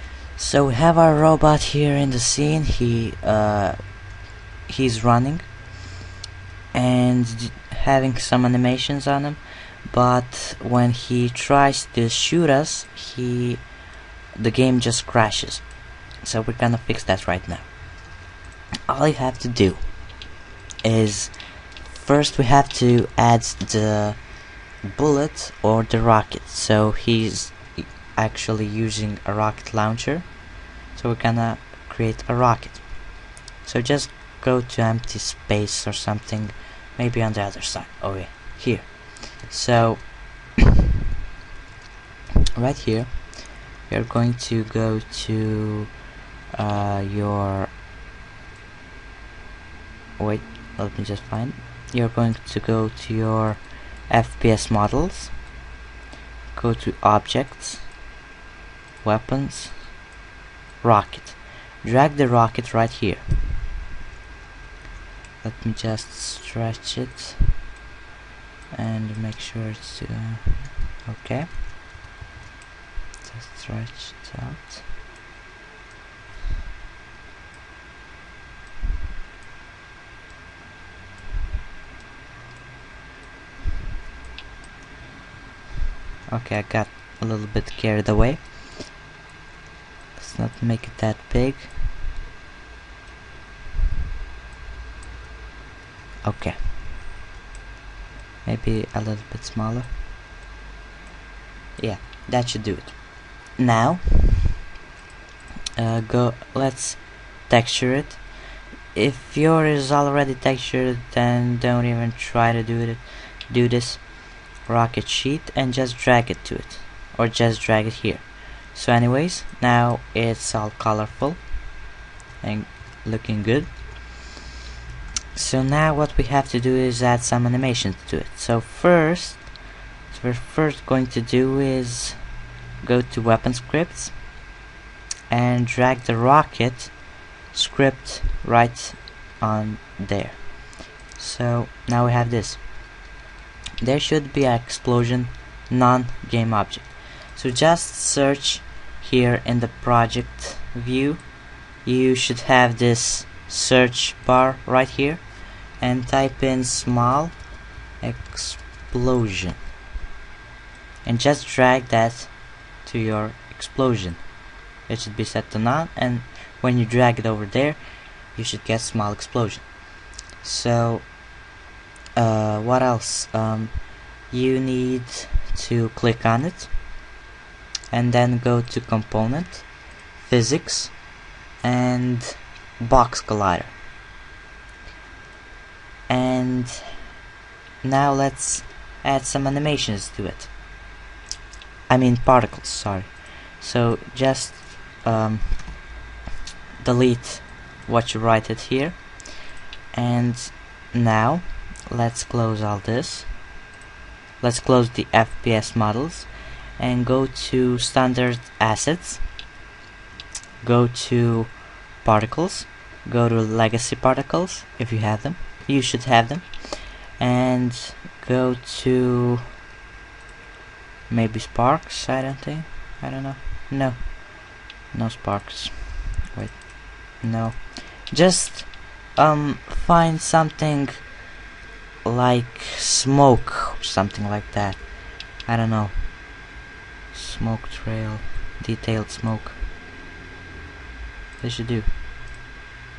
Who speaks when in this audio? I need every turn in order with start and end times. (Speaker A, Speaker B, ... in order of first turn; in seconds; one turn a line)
Speaker A: 0.3-4.0
Speaker A: 4.7-5.5
Speaker A: 6.7-13.7
Speaker A: 14.3-15.7
Speaker A: 16.2-17.7
Speaker A: 18.9-20.0
Speaker A: 20.8-30.4
Speaker A: 30.9-32.9
Speaker A: 33.6-40.5
Speaker A: 42.5-46.0
Speaker A: 46.5-47.7
Speaker A: 50.2-55.4
Speaker A: 56.5-57.9
Speaker A: 59.0-59.9
Speaker A: 60.8-63.6
Speaker A: 65.4-67.5
Speaker A: 68.7-71.5
Speaker A: 73.2-74.8
Speaker A: 86.3-88.5
Speaker A: 90.2-91.7
Speaker A: 96.2-96.6
Speaker A: 98.4-99.9
Speaker A: 101.8-104.5
Speaker A: 105.8-121.5
Speaker A: 122.4-124.2
Speaker A: 125.3-129.5
Speaker A: 130.1-134.2
Speaker A: 135.3-137.0
Speaker A: 137.5-142.7
Speaker A: 143.8-157.4
Speaker A: 158.0-159.6
Speaker A: 161.0-164.2
Speaker A: 164.8-169.8
Speaker A: 170.4-171.1
Speaker A: 172.1-176.7
Speaker A: 177.9-181.0
Speaker A: 181.6-183.7
Speaker A: 186.1-187.0
Speaker A: 187.8-190.5
Speaker A: 191.9-195.8
Speaker A: 196.8-203.3
Speaker A: 204.4-209.2
Speaker A: 210.6-219.4
Speaker A: 221.1-231.1
Speaker A: 232.0-236.2
Speaker A: 237.1-239.6
Speaker A: 241.4-241.9